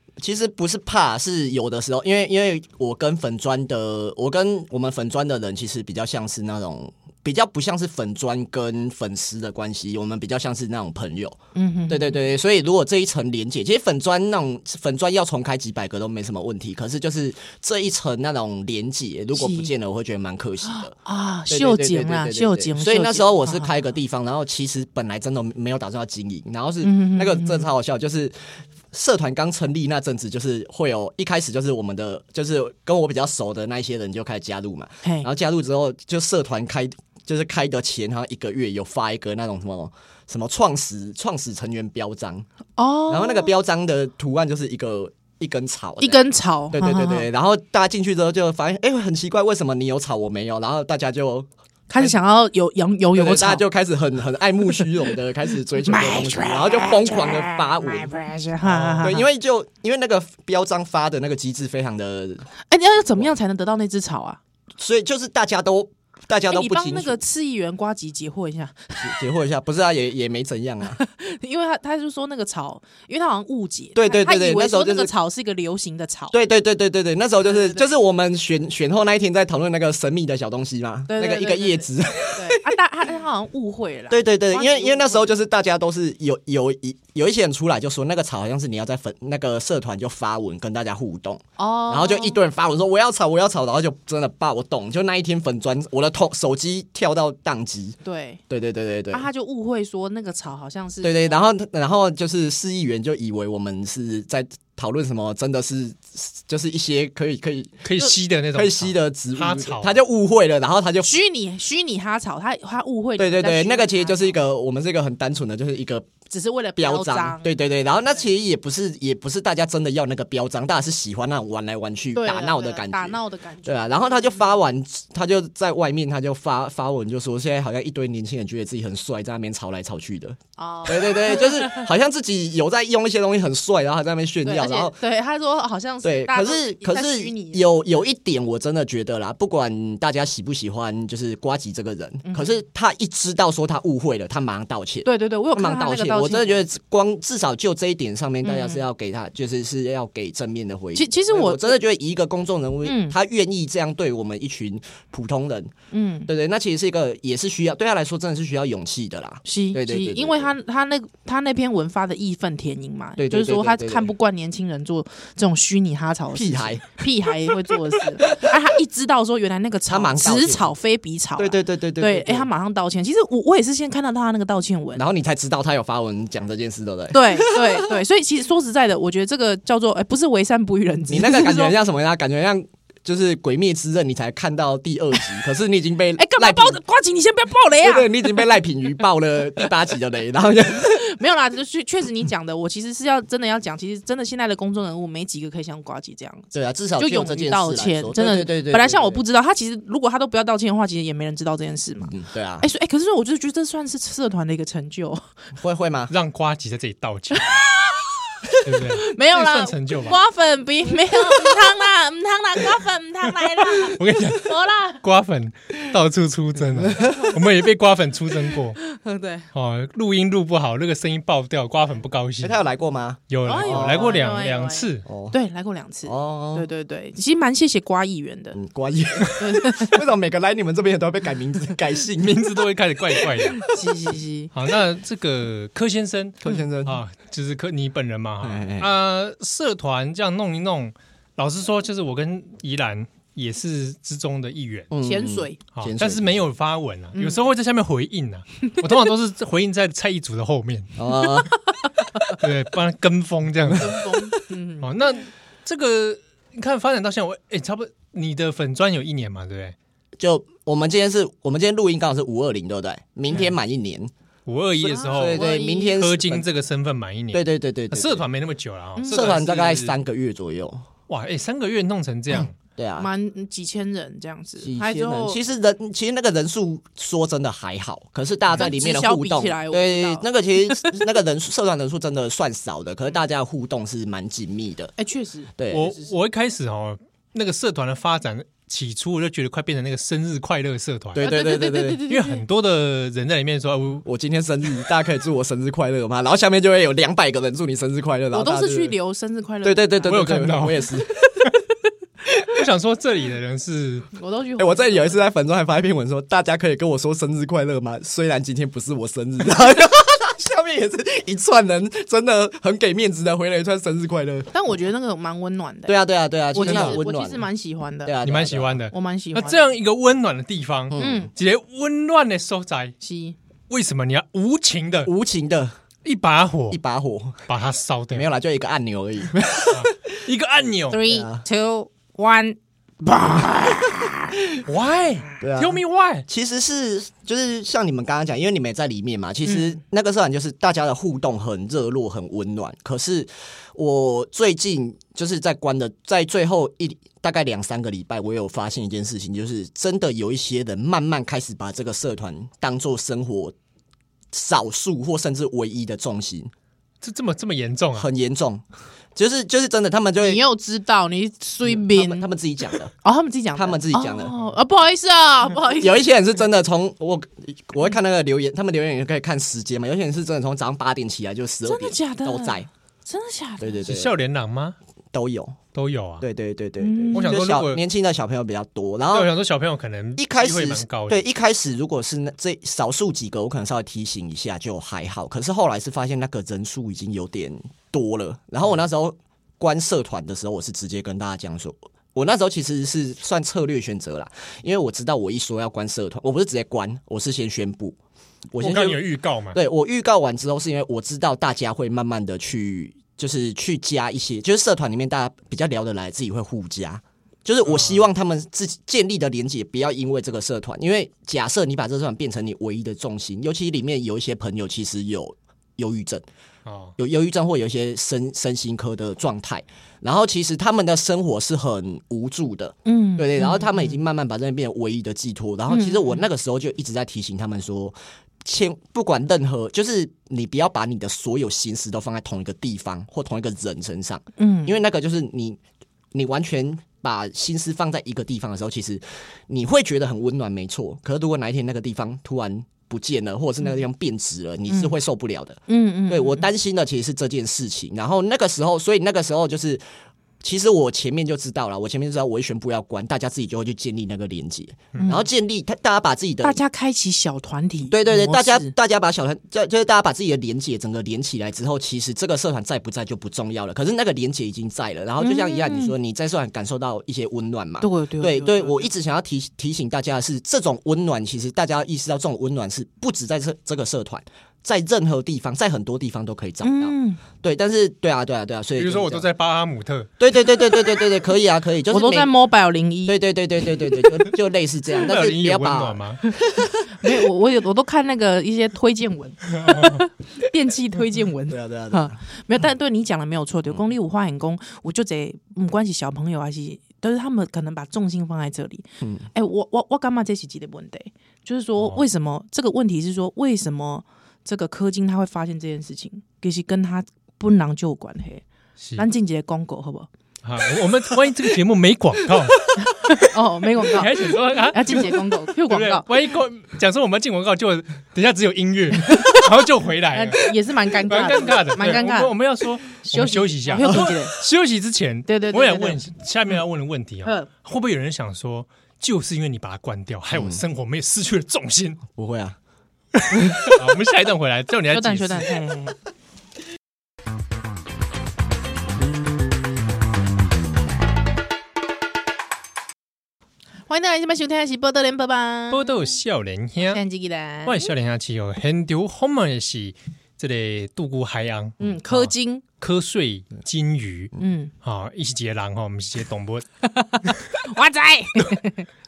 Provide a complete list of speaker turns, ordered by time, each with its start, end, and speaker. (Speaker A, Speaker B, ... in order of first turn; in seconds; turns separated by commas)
Speaker A: 0.2-11.4, Speaker B: 11.6-12.2, Speaker A: 11.9-20.9, Speaker B: 19.3-19.7, Speaker B: 20.6-23.7, Speaker A: 21.5-42.5, Speaker B: 26.8-27.7, Speaker B: 35.0-35.3, Speaker B: 42.8-43.5, Speaker A: 43.1-46.2, Speaker B: 46.0-47.3, Speaker A: 46.7-51.5, Speaker B: 51.9-53.6, Speaker A: 53.1-58.1, Speaker B: 55.8-59.2, Speaker C: 58.6-59.1, Speaker A: 59.0-62.5, Speaker B: 62.7-64.4, Speaker A: 64.8-67.2, Speaker B: 66.5-69.2, Speaker A: 69.0-71.0, Speaker B: 70.9-76.3, Speaker A: 73.9-75.1, Speaker A: 76.3-82.8, Speaker B: 77.4-77.9, Speaker B: 81.1-85.3, Speaker A: 84.1-98.0, Speaker B: 91.6-92.4, Speaker B: 98.0-98.4, Speaker A: 98.5-99.2, Speaker B: 99.1-101.4, Speaker A: 101.0-107.9, Speaker C: 107.8-110.0, Speaker A: 108.5-111.1, Speaker B: 111.0-114.4, Speaker A: 113.2-116.1, Speaker B: 116.3-117.5, Speaker A: 116.8-135.0, Speaker B: 122.2-124.5, Speaker B: 130.6-131.8, Speaker B: 134.5-137.7, Speaker A: 136.0-155.7, Speaker B: 142.2-142.5, Speaker B: 145.0-146.6, Speaker B: 148.4-148.9, Speaker B: 150.9-151.8, Speaker B: 152.8-153.2, Speaker B: 155.9-156.3, Speaker A: 156.3-160.5, Speaker B: 159.4-175.0, Speaker A: 163.2-164.1, Speaker A: 166.3-166.9, Speaker A: 167.7-168.5, Speaker A: 169.9-170.7, Speaker A: 171.4-172.5, Speaker A: 174.9-178.0, Speaker B: 177.1-181.7, Speaker A: 181.1-186.8, Speaker B: 186.2-188.4, Speaker A: 187.8-191.0, Speaker B: 190.7-205.3, Speaker A: 196.5-199.2, Speaker A: 202.1-202.7, Speaker A: 205.6-206.1, Speaker C: 206.1-207.5, Speaker B: 207.3-215.0, Speaker C: 208.6-210.2, Speaker C: 213.6-218.8, Speaker A: 216.8-217.2, Speaker B: 217.0-217.4, Speaker B: 218.8-219.5, Speaker C: 219.5-222.6, Speaker A: 222.4-224.2, Speaker C: 223.3-225.0, Speaker B: 223.4-228.6, Speaker A: 225.0-225.4, Speaker A: 226.1-226.7, Speaker A: 228.5-232.6, Speaker B: 229.4-230.0, Speaker C: 232.2-233.7, Speaker A: 233.2-233.4, Speaker B: 233.7-234.5, Speaker C: 234.5-244.9, Speaker A: 236.4-237.0, Speaker A: 238.4-238.9, Speaker A: 244.9-246.4, Speaker B: 245.0-245.6, Speaker C: 245.7-251.5, Speaker B: 247.1-247.4, Speaker A: 251.0-251.5, Speaker C: 252.2-254.0, Speaker B: 253.7-254.9, Speaker C: 254.8-259.8, Speaker A: 260.2-264.1, Speaker C: 264.5-270.0, Speaker B: 264.8-266.0, Speaker A: 265.0-266.5, Speaker A: 267.3-268.2, Speaker B: 269.0-269.3, Speaker A: 269.1-270.9, Speaker C: 271.1-272.6, Speaker A: 272.8-273.1, Speaker B: 273.0-275.4, Speaker A: 274.6-284.9, Speaker B: 278.5-281.0, Speaker B: 285.0-286.1, Speaker A: 285.6-285.9, Speaker C: 285.7-291.3, Speaker A: 291.1-292.0, Speaker B: 291.2-292.4, Speaker C: 292.1-294.0, Speaker A: 294.0-298.9, Speaker B: 298.3-300.4, Speaker A: 299.6-301.5, Speaker C: 300.0-301.6, Speaker C: 302.4-304.1, Speaker B: 304.1-305.2, Speaker A: 304.6-314.5, Speaker B: 314.5-316.0, Speaker A: 315.9-317.4, Speaker B: 316.5-318.1, Speaker C: 316.6-317.0, Speaker A: 318.0-318.8, Speaker C: 318.2-322.9, Speaker B: 318.9-319.7, Speaker A: 320.9-321.3, Speaker B: 321.0-321.3, Speaker B: 323.0-323.4, Speaker C: 323.7-325.1, Speaker A: 325.0-325.8, Speaker C: 326.0-326.8, Speaker A: 326.7-327.5, Speaker C: 327.5-328.3, Speaker A: 328.1-329.9, Speaker C: 329.7-331.0, Speaker B: 330.9-334.4, Speaker A: 331.1-331.4, Speaker C: 334.6-336.2, Speaker A: 335.4-353.5, Speaker B: 339.4-339.8, Speaker A: 354.3-356.5, Speaker C: 357.0-358.1, Speaker A: 357.9-358.6, Speaker A: 359.1-360.4, Speaker B: 360.2-362.2, Speaker A: 361.6-362.9, Speaker B: 363.0-366.0, Speaker A: 363.5-364.4, Speaker A: 365.8-372.7, Speaker B: 371.6-373.9, Speaker A: 373.6-374.1, Speaker C: 373.9-374.8, Speaker A: 375.1-375.6, Speaker C: 375.7-376.2, Speaker A: 376.2-379.3, Speaker B: 376.8-377.4, Speaker C: 377.1-377.8, Speaker C: 379.1-381.2, Speaker A: 380.2-398.0, Speaker A: 398.5-399.0, Speaker C: 398.6-399.6, Speaker A: 399.5-416.2, Speaker C: 407.6-408.1, Speaker C: 416.6-416.9, Speaker A: 417.0-435.6, Speaker B: 422.9-424.0, Speaker B: 425.7-426.2, Speaker B: 434.4-434.8, Speaker A: 436.1-449.8, Speaker B: 444.7-444.9, Speaker B: 445.7-446.5, Speaker A: 450.4-456.6, Speaker B: 455.0-455.3, Speaker B: 456.4-458.7, Speaker A: 457.9-479.3, Speaker B: 465.2-465.9, Speaker B: 467.8-468.9, Speaker B: 476.6-477.2, Speaker C: 478.8-480.1, Speaker A: 480.2-482.3, Speaker B: 481.9-483.2, Speaker A: 483.1-486.0, Speaker C: 485.0-486.2, Speaker B: 486.9-508.4, Speaker C: 489.6-490.0, Speaker A: 491.5-492.2, Speaker A: 499.0-499.3, Speaker C: 508.8-509.1, Speaker B: 509.0-510.1, Speaker C: 510.4-513.2, Speaker B: 512.8-516.1, Speaker C: 513.8-532.0, Speaker B: 519.1-519.4, Speaker B: 520.1-522.3, Speaker B: 523.0-524.4, Speaker A: 523.8-524.1, Speaker B: 525.3-526.0, Speaker A: 530.3-530.6, Speaker A: 532.1-532.6, Speaker C: 533.1-535.5, Speaker B: 534.9-536.0, Speaker B: 543.9-545.9, Speaker C: 545.7-547.0, Speaker B: 546.9-547.9, Speaker C: 547.6-556.6, Speaker B: 551.8-552.6, Speaker B: 554.4-554.7, Speaker B: 556.9-558.9